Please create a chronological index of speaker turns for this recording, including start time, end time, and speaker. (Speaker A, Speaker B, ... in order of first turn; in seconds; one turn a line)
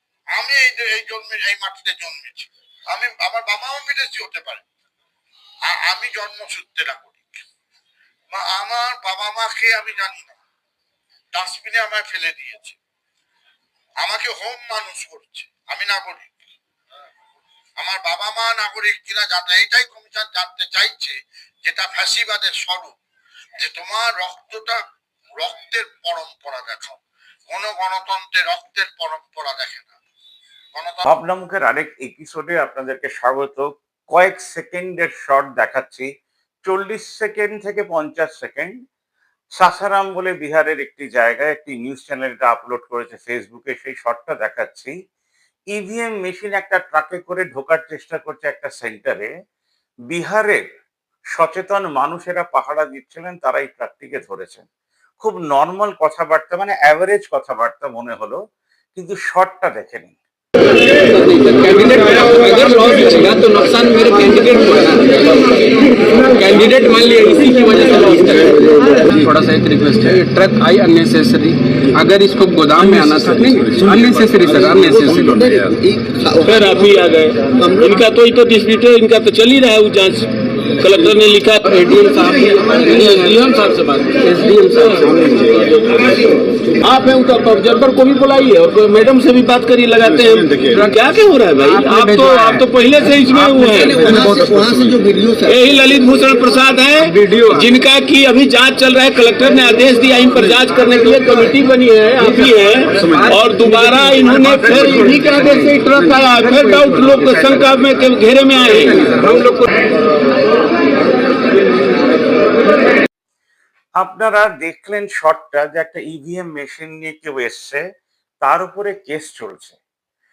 Speaker A: 0.3-4.7
Speaker A: 5.7-7.4
Speaker A: 8.3-10.4
Speaker A: 11.3-12.8
Speaker A: 14.0-16.3
Speaker A: 17.8-22.9
Speaker A: 23.6-24.8
Speaker A: 25.4-29.9
Speaker A: 30.7-31.1
Speaker B: 31.1-36.1
Speaker B: 36.6-38.7
Speaker B: 39.6-44.9
Speaker B: 45.7-49.3
Speaker B: 50.1-50.6
Speaker B: 51.4-54.7
Speaker B: 55.2-58.4
Speaker B: 59.0-60.2
Speaker C: 61.1-65.0
Speaker D: 62.6-63.2
Speaker C: 66.3-75.8
Speaker D: 68.1-69.0
Speaker D: 76.2-94.5
Speaker C: 84.4-85.3
Speaker C: 91.9-92.5
Speaker C: 93.6-95.5
Speaker D: 95.4-109.6
Speaker C: 97.2-97.6
Speaker C: 103.0-103.3
Speaker C: 103.9-104.8
Speaker C: 106.2-107.2
Speaker B: 114.0-117.8
Speaker B: 118.4-119.8